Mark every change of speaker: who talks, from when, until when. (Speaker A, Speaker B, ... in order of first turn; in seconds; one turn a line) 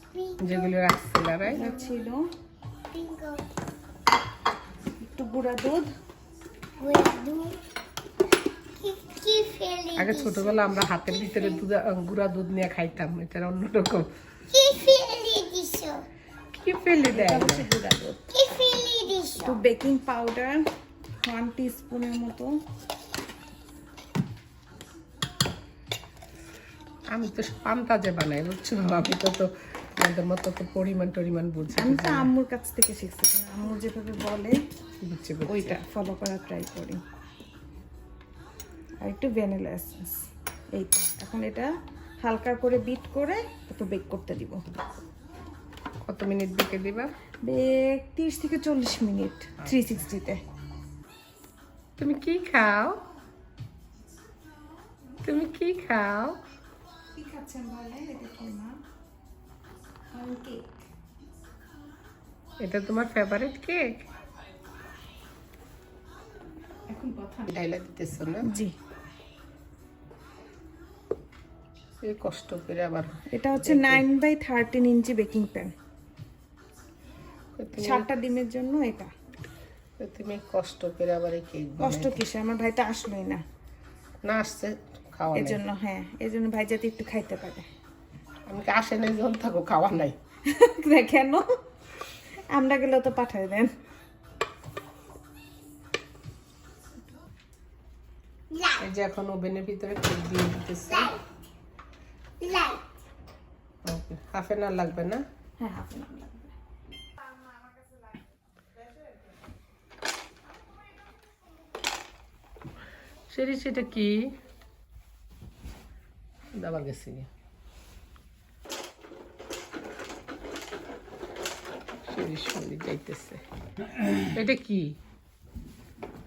Speaker A: 0.1-0.5
Speaker B: 0.4-1.7
Speaker C: 1.4-2.3
Speaker A: 1.6-1.9
Speaker A: 2.9-3.5
Speaker C: 5.0-5.9
Speaker A: 6.8-7.6
Speaker A: 8.7-10.5
Speaker B: 10.0-14.1
Speaker A: 11.1-11.6
Speaker A: 14.5-16.1
Speaker B: 16.6-17.6
Speaker C: 17.1-18.3
Speaker A: 18.3-19.6
Speaker C: 19.4-20.6
Speaker C: 21.2-22.5
Speaker B: 27.1-32.3
Speaker C: 31.7-34.6
Speaker B: 35.0-35.8
Speaker C: 35.5-37.0
Speaker C: 39.0-44.6
Speaker B: 46.1-47.1
Speaker C: 47.4-50.4
Speaker B: 52.0-53.0
Speaker B: 55.2-56.4
Speaker C: 57.1-58.8
Speaker C: 60.1-60.8
Speaker B: 62.6-64.0
Speaker B: 66.9-68.5
Speaker C: 68.4-68.7
Speaker B: 72.0-74.0
Speaker C: 73.3-75.7
Speaker B: 77.6-78.0
Speaker C: 77.8-79.1
Speaker B: 80.0-82.2
Speaker C: 81.8-83.4
Speaker B: 84.2-85.6
Speaker C: 85.3-87.7
Speaker B: 88.5-90.1
Speaker C: 90.5-91.5
Speaker C: 92.5-93.7
Speaker A: 98.5-98.8
Speaker B: 98.8-101.2
Speaker A: 102.4-102.8
Speaker B: 103.8-105.2
Speaker C: 105.6-106.5
Speaker B: 113.3-114.2
Speaker B: 116.5-117.3
Speaker B: 122.1-123.4
Speaker B: 124.3-124.9